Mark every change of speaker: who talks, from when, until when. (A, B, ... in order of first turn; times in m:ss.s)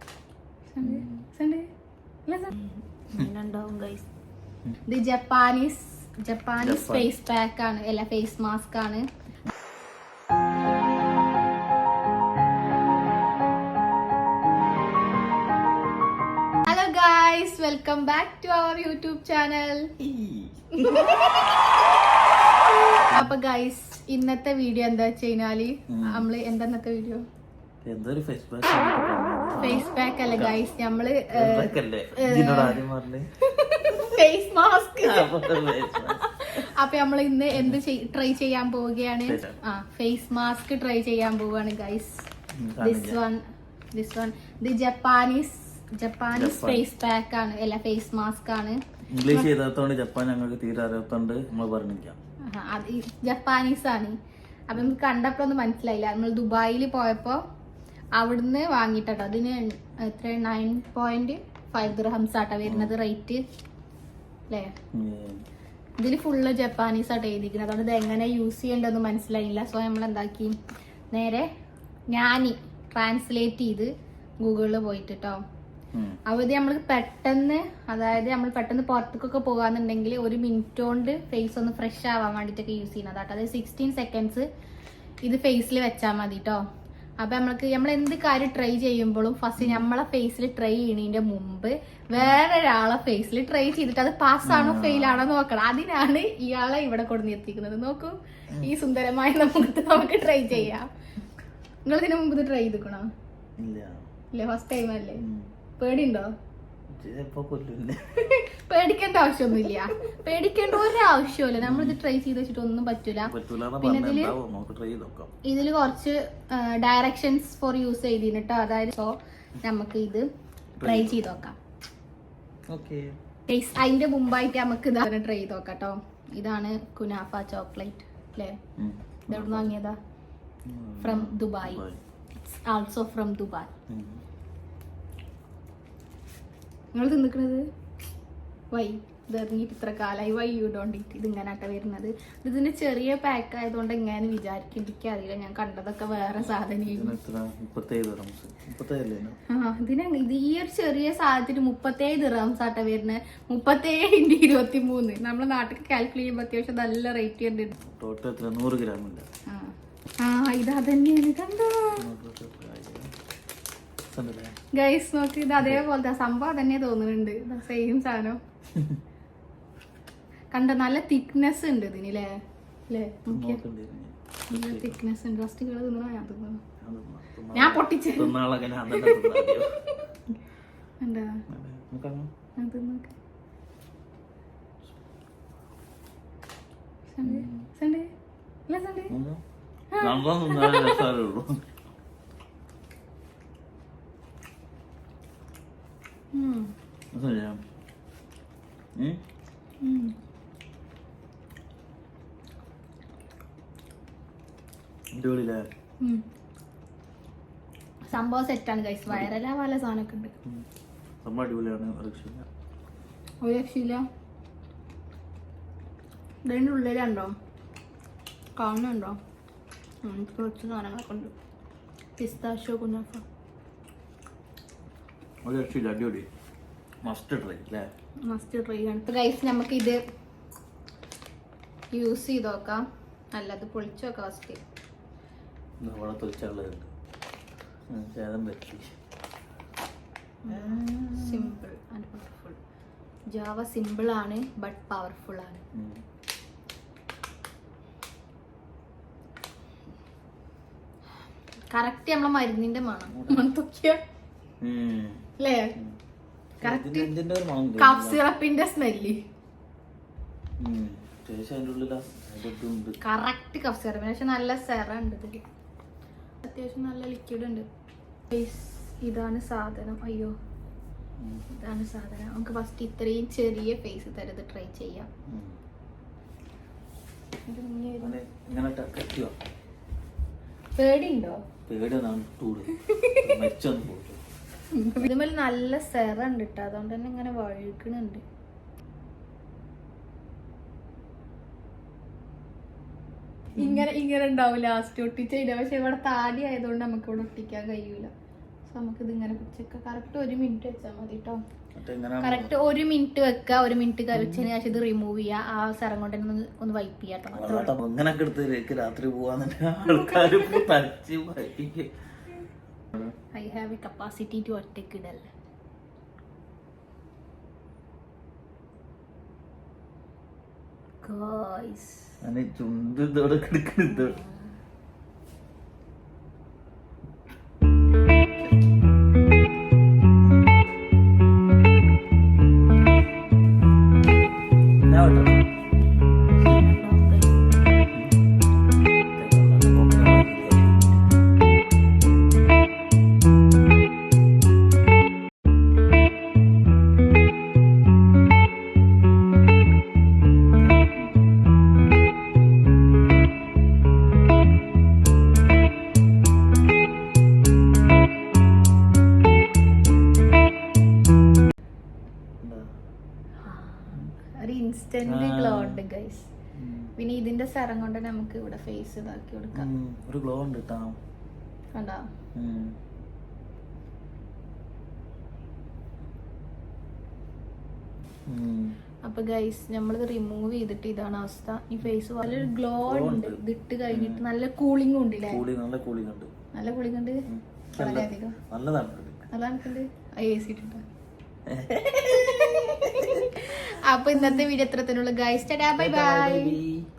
0:00.7-0:01.7 A
0:00.8-0:01.3 B
0:02.3-0:04.0 A
0:04.9-0:09.0 A
0:06.6-0:07.1 B
0:16.6-0:20.0 A
0:20.0-0:21.0 B
0:20.7-0:21.5 A
0:23.1-0:27.2 A
0:23.1-0:23.3 B
0:25.9-0:26.2 B
0:27.8-0:30.6 B
0:29.6-0:32.8 A
0:31.3-0:33.3 B
0:33.4-0:42.2 A
0:35.0-0:36.7 B
0:37.5-0:37.8 B
0:39.2-0:39.6 B
0:42.5-0:43.2 B
0:42.8-0:43.4 A
0:43.9-0:49.5 A
0:46.3-0:46.8 B
0:49.1-0:52.2 B
0:52.5-0:54.2 A
0:54.7-0:57.4 A
0:58.2-1:03.4 A
1:02.6-1:02.9 B
1:04.9-1:05.4 B
1:06.0-1:10.5 A
1:11.1-1:11.4 A
1:12.1-1:15.4 A
1:15.9-1:16.2 B
1:16.2-1:24.4 A
1:25.2-1:26.6 A
1:27.2-1:40.9 A
1:29.6-1:29.9 B
1:34.4-1:35.2 B
1:41.8-1:43.1 A
1:43.6-1:44.0 B
1:44.3-1:45.2 A
1:45.2-1:45.5 B
1:45.8-1:46.3 A
1:46.9-1:48.3 B
1:48.2-1:54.3 A
1:51.6-1:52.0 B
1:53.2-1:55.3 B
1:55.4-2:00.2 A
2:00.8-2:01.4 B
2:00.8-2:01.6 A
2:02.7-2:03.1 B
2:03.5-2:08.6 A
2:08.8-2:09.7 B
2:09.3-2:10.0 A
2:10.6-2:12.0 B
2:11.0-2:11.8 A
2:12.4-2:13.7 A
2:13.9-2:14.2 B
2:16.9-2:17.6 A
2:18.7-2:27.2 A
2:26.8-2:29.4 B
2:29.5-2:37.7 A
2:37.8-2:39.2 B
2:39.5-2:42.0 A
2:42.0-2:43.1 B
2:44.1-2:44.6 B
2:44.7-2:48.4 A
2:45.6-2:45.8 B
2:48.7-2:49.0 B
2:50.5-2:52.3 A
2:52.9-2:53.6 A
2:53.3-2:55.0 B
2:54.5-2:56.6 A
2:56.8-2:59.8 B
2:57.5-3:00.0 A
3:01.0-3:01.4 A
3:01.5-3:02.3 B
3:02.6-3:03.1 A
3:07.1-3:08.1 A
3:07.2-3:07.7 B
3:08.7-3:09.1 A
3:09.1-3:09.4 B
3:09.9-3:11.1 A
3:10.0-3:11.6 B
3:16.3-3:16.7 A
3:17.1-3:17.6 B
3:19.0-3:19.2 B
3:19.8-3:20.1 A
3:25.1-3:25.7 B
3:28.1-3:30.4 A
3:31.2-3:32.5 B
3:33.4-3:34.0 A
3:36.4-3:37.3 A
3:38.6-3:39.2 A
3:40.0-3:41.3 A
3:42.2-3:43.2 A
3:45.4-3:46.3 B
3:47.0-3:47.9 B
3:48.2-3:50.0 A
3:51.9-3:54.6 A
3:55.8-3:56.9 B
3:57.9-3:58.9 B
4:00.4-4:02.6 A
4:00.5-4:01.6 B
4:03.3-4:05.6 A
4:05.7-4:06.0 B
4:11.7-4:14.0 A
4:13.1-4:13.5 B
4:14.6-4:15.2 B
4:15.4-4:15.7 A
4:16.6-4:18.2 B
4:16.6-4:17.1 A
4:17.8-4:19.2 A
4:20.6-4:23.0 B
4:23.0-4:25.4 A
4:26.4-4:27.7 A
4:28.3-4:30.3 A
4:31.2-4:31.5 B
4:31.5-4:35.1 A
4:35.3-4:35.6 B
4:37.4-4:38.2 A
4:38.0-4:39.4 B
4:40.7-4:41.4 A
4:41.7-4:44.2 B
4:42.8-4:43.3 A
4:44.7-4:48.2 A
4:53.6-4:58.1 A
4:58.7-5:01.4 A
5:01.7-5:02.6 B
5:02.2-5:07.7 A
5:04.1-5:04.5 B
5:07.3-5:11.9 B
5:10.2-5:10.4 A
5:13.0-5:15.3 A
5:21.0-5:22.2 A
5:22.2-5:24.2 B
5:23.9-5:24.4 A
5:34.8-5:35.5 B
5:36.4-5:37.5 A
5:39.2-5:41.0 B
6:02.4-6:02.7 B
6:03.4-6:06.3 A
6:05.0-6:05.8 B
6:06.6-6:06.9 B
6:07.0-6:09.7 A
6:09.5-6:11.0 B
6:11.7-6:12.0 A
6:12.4-6:12.8 B
6:18.3-6:18.8 B
6:19.0-6:25.4 A
6:22.2-6:24.2 B
6:25.2-6:26.3 B
6:26.5-6:27.2 A
6:27.3-6:29.3 B
6:27.7-6:28.4 A
6:29.3-6:30.8 A
6:31.4-6:33.5 B
6:32.1-6:36.6 A
6:35.8-6:36.8 B